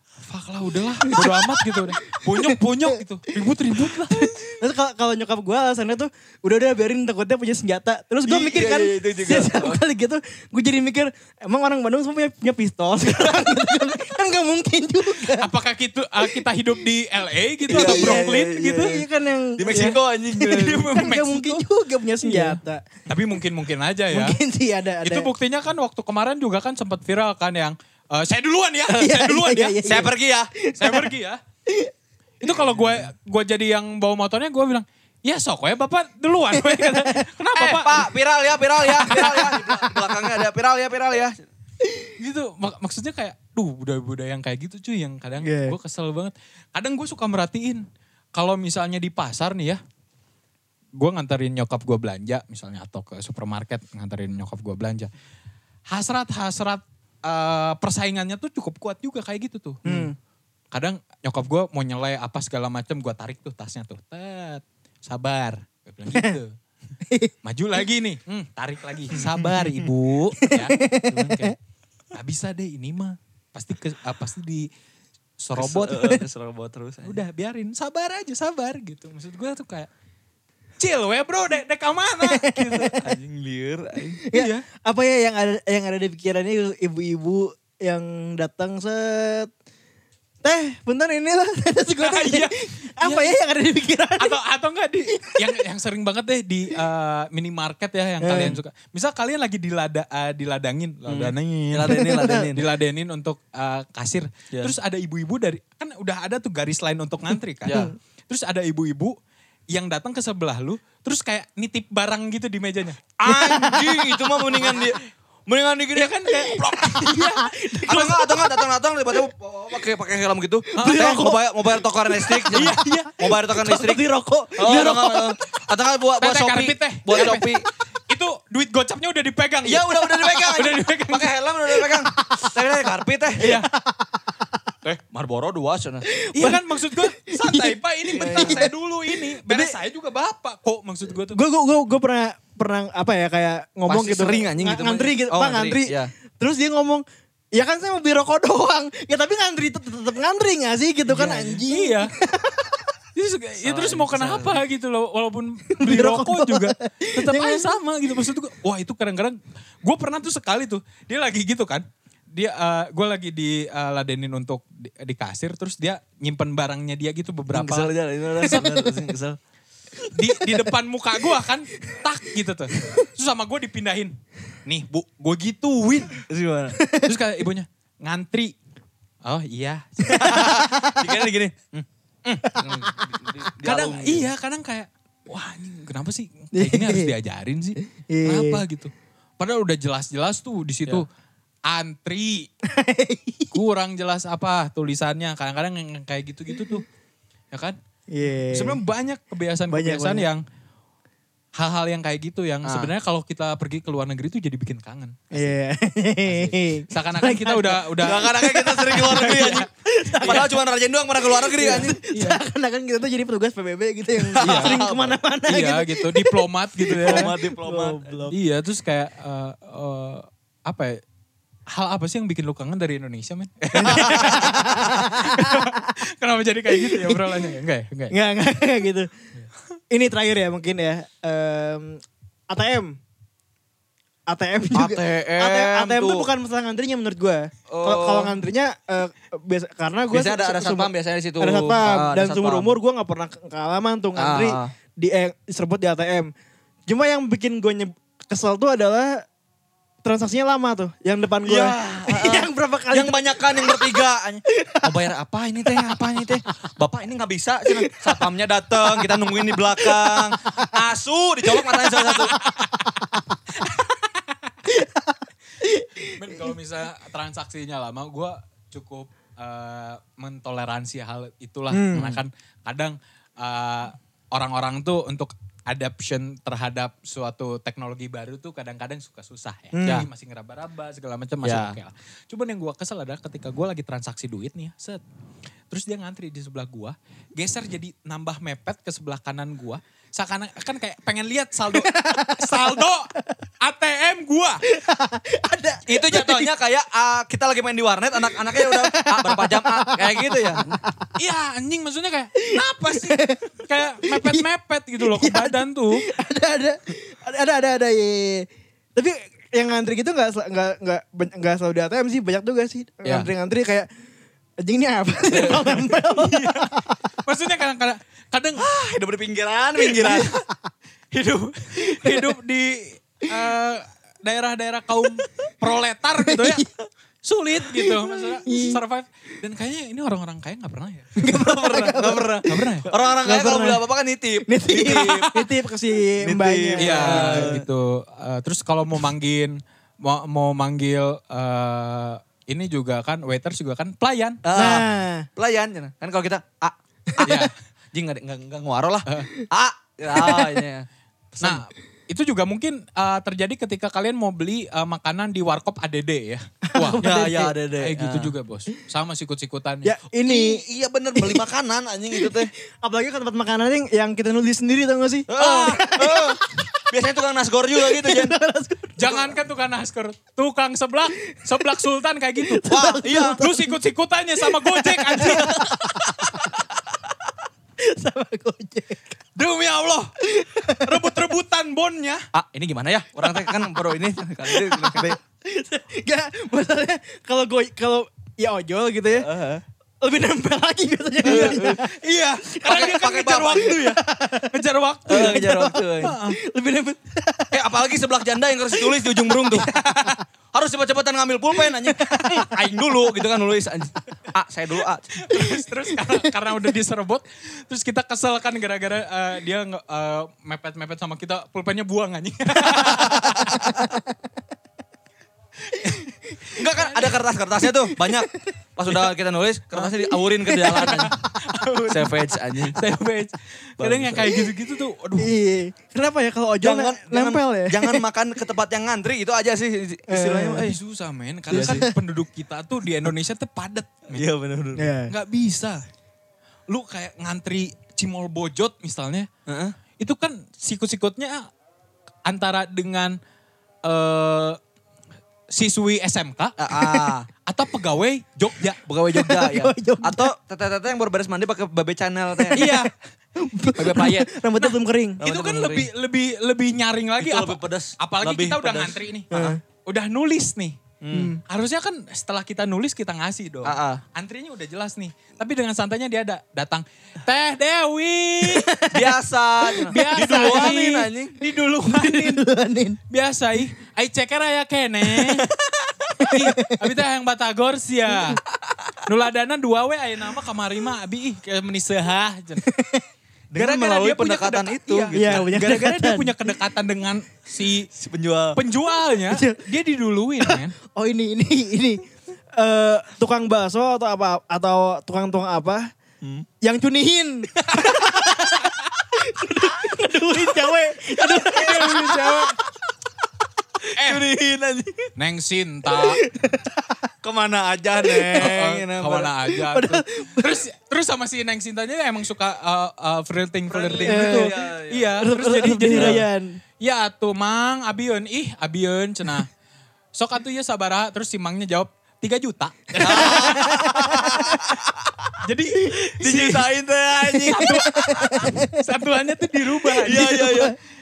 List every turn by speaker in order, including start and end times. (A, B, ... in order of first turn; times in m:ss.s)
0:00.2-0:04.4 A
0:01.0-0:02.9 B
0:04.1-0:15.5 B
0:08.3-0:09.8 C
0:15.2-0:19.0 A
0:17.7-0:22.8 B
0:17.7-0:19.0 C
0:19.6-0:20.9 C
0:19.6-0:21.6 A
0:22.2-0:24.4 A
0:24.1-0:25.3 B
0:25.0-0:30.0 A
0:28.9-0:31.1 B
0:29.8-0:30.5 C
0:30.8-0:31.4 A
0:32.4-0:38.1 A
0:32.8-0:33.0 C
0:36.5-0:37.3 B
0:37.6-0:41.4 C
0:38.8-0:39.7 A
0:39.0-0:40.1 B
0:42.2-0:49.8 A
0:45.4-0:45.8 B
0:51.0-0:55.1 A
0:55.9-1:00.1 A
0:59.8-1:00.1 B
1:00.7-1:06.5 A
1:06.1-1:06.4 B
1:07.4-1:11.5 A
1:10.4-1:11.5 B
1:12.1-1:14.7 A
1:15.4-1:16.2 A
1:15.6-1:17.2 C
1:17.0-1:19.9 A
1:20.8-1:23.0 A
1:22.2-1:23.1 B
1:23.0-1:24.2 C
1:24.2-1:29.5 B
1:24.3-1:24.6 A
1:30.4-1:34.4 B
1:32.0-1:33.4 A
1:34.2-1:49.2 A
1:35.1-1:35.4 B
1:38.2-1:38.6 B
1:41.1-1:42.7 C
1:41.9-1:42.5 B
1:47.6-1:47.9 C
1:47.7-1:47.9 B
1:49.7-1:53.0 A
1:53.2-1:56.2 C
1:53.2-1:54.7 B
1:55.9-1:58.0 A
1:56.3-1:58.6 B
1:57.8-2:04.0 C
2:00.7-2:01.5 B
2:00.8-2:01.2 A
2:02.1-2:05.3 B
2:02.5-2:03.1 A
2:04.6-2:07.6 C
2:06.2-2:12.2 A
2:09.6-2:13.5 C
2:13.4-2:13.7 A
2:13.4-2:14.2 B
2:14.8-2:16.0 C
2:16.1-2:19.7 B
2:16.3-2:21.4 A
2:18.2-2:18.7 C
2:21.3-2:27.0 B
2:23.9-2:26.1 C
2:27.5-2:32.8 B
2:31.1-2:32.1 A
2:33.1-2:48.8 A
2:33.6-2:34.6 C
2:35.7-2:37.8 B
2:47.5-2:49.4 C
2:48.4-2:49.0 B
2:50.0-2:50.7 B
2:50.1-2:56.2 A
2:56.3-2:56.8 C
2:56.7-2:57.1 B
2:57.0-2:58.6 A
2:59.2-3:00.5 A
3:00.0-3:01.3 B
3:00.2-3:01.8 C
3:02.4-3:02.9 B
3:02.4-3:04.3 C
3:03.6-3:11.0 A
3:06.5-3:07.1 B
3:08.1-3:08.6 B
3:11.7-3:12.5 A
3:12.6-3:13.6 B
3:13.5-3:16.8 A
3:17.5-3:17.8 A
3:18.1-3:18.8 B
3:18.5-3:20.4 A
3:19.7-3:20.3 B
3:21.6-3:25.6 A
3:22.6-3:22.9 C
3:25.3-3:30.6 B
3:26.2-3:29.7 A
3:28.0-3:29.7 C
3:30.2-3:30.5 A
3:30.2-3:32.0 C
3:31.2-3:38.3 B
3:32.1-3:32.4 A
3:34.4-3:35.2 C
3:34.4-3:34.8 A
3:35.5-3:37.3 A
3:36.9-3:38.3 C
3:38.3-3:41.0 A
3:41.7-3:48.1 A
3:43.7-3:46.0 B
3:43.8-3:44.6 C
3:46.7-3:47.4 B
3:48.1-3:49.1 B
3:49.9-3:53.0 B
3:54.3-4:00.9 B
3:54.7-3:56.3 C
3:57.7-3:58.4 C
4:00.1-4:02.7 C
4:01.4-4:06.3 B
4:04.2-4:04.7 C
4:06.9-4:09.2 B
4:10.0-4:15.0 B
4:11.4-4:22.4 C
4:15.6-4:16.4 B
4:17.7-4:18.2 B
4:18.8-4:20.7 B
4:21.6-4:23.2 B
4:23.6-4:24.5 A
4:24.7-4:26.5 B
4:26.0-4:45.0 A
4:31.7-4:32.2 B
4:39.7-4:40.0 B
4:41.4-4:41.8 C
4:45.7-4:54.6 A
4:51.7-4:52.8 B
4:54.6-4:56.5 B
4:55.9-5:00.7 C
4:58.4-5:01.1 B
5:01.2-5:06.0 A
5:02.4-5:03.5 B
5:04.0-5:04.4 B
5:05.0-5:13.9 B
5:14.6-5:17.0 B
5:15.3-5:15.7 C
5:15.5-5:18.7 A
5:18.6-5:20.3 C
5:19.9-5:20.4 A
5:21.1-5:26.6 A
5:21.8-5:22.3 B
5:26.2-5:26.7 B
5:27.2-5:31.1 A
5:27.6-5:28.8 B
5:31.2-5:33.8 B
5:31.2-5:35.4 C
5:32.4-5:32.9 A
5:34.4-5:37.6 B
5:36.2-5:37.6 C
5:36.8-5:44.4 A
5:44.4-5:51.6 C
5:44.5-5:45.2 B
5:47.2-5:47.5 A
5:50.1-5:50.6 B
5:51.4-5:57.1 A
5:56.7-5:57.6 B
5:57.0-5:58.3 C
5:57.7-5:59.9 A
5:59.8-6:00.6 B
6:00.2-6:02.5 C
6:01.1-6:01.4 B
6:02.1-6:06.8 B
6:05.3-6:08.3 C
6:07.7-6:09.1 B
6:09.0-6:12.6 A
6:12.4-6:13.7 B
6:12.7-6:13.4 C
6:13.3-6:15.6 A
6:14.4-6:16.6 B
6:15.2-6:16.3 C
6:17.8-6:19.2 B
6:19.4-6:20.1 A
6:20.2-6:21.1 B
6:20.8-6:22.2 A
6:22.3-6:25.2 C
6:23.3-6:29.3 B
6:29.2-6:29.6 C
6:30.0-6:33.0 B
6:31.2-6:36.4 A
6:31.2-6:31.8 C
6:32.6-6:33.8 C
6:33.6-6:34.6 B
6:35.1-6:36.1 C
6:35.1-6:37.6 B
6:37.5-6:39.8 C
6:38.8-6:40.1 B
6:39.6-6:40.2 A
6:40.5-6:45.3 C
6:41.6-6:42.6 B
6:45.2-6:53.8 A
6:53.0-6:53.7 C
6:53.2-6:54.0 B
6:55.7-6:56.6 B
6:55.8-6:56.1 A
6:56.5-7:01.1 C
6:56.7-6:57.2 A
6:57.8-6:58.5 B
7:00.1-7:01.1 B
7:00.6-7:05.3 A
7:01.9-7:02.8 C
7:03.8-7:04.3 C
7:05.2-7:08.0 B
7:06.6-7:10.8 C
7:10.1-7:10.7 B
7:10.6-7:14.2 A
7:11.5-7:11.9 C
7:11.5-7:11.9 B
7:14.1-7:14.8 C
7:14.8-7:15.1 B
7:15.1-7:15.8 A
7:16.7-7:19.3 A
7:19.5-7:19.8 C
7:20.0-7:21.5 A
7:22.2-7:23.2 A
7:23.8-7:24.6 A
7:25.5-7:28.8 A
7:26.6-7:27.3 C
7:28.8-7:32.7 C
7:29.1-7:30.3 B
7:32.5-7:32.9 B
7:32.5-7:32.9 A
7:33.4-7:35.2 B
7:33.8-7:40.8 A
7:35.2-7:35.9 C
7:37.2-7:39.5 C
7:39.3-7:39.6 B
7:41.0-7:41.4 C
7:41.1-7:41.4 B
7:41.4-7:48.7 A
7:43.6-7:44.0 C
7:48.4-7:49.1 B
7:48.9-7:51.3 C
7:49.8-7:50.7 B
7:49.8-7:52.4 A
7:51.8-7:53.0 B
7:53.1-7:55.5 A
7:56.2-7:56.8 B
7:56.2-7:58.4 A
7:59.0-8:02.6 A
8:02.6-8:03.0 B
8:03.5-8:05.5 C
8:03.5-8:07.9 A
8:05.1-8:06.4 B
8:07.9-8:08.6 C
8:08.5-8:10.7 A
8:09.3-8:09.6 B
8:10.4-8:12.0 B
8:12.6-8:15.9 B
8:16.6-8:22.6 B
8:21.4-8:22.5 A
8:21.8-8:22.2 C
8:23.9-8:24.2 A
8:24.0-8:25.1 C
8:25.2-8:26.2 A
8:25.9-8:26.7 B
8:27.2-8:29.3 C
8:28.0-8:28.5 B
8:28.4-8:36.2 A
8:29.5-8:30.6 B
8:33.7-8:35.1 C
8:34.0-8:34.5 B
8:35.2-8:36.6 B
8:35.9-8:36.2 C
8:36.8-8:39.5 A
8:40.1-8:43.8 A
8:43.0-8:44.8 B
8:43.0-8:45.4 C
8:45.4-8:46.7 A
8:45.8-8:46.2 B
8:46.2-8:48.2 C
8:47.2-8:48.8 B
8:47.5-8:50.6 A
8:49.9-8:50.7 C
8:50.0-8:50.7 B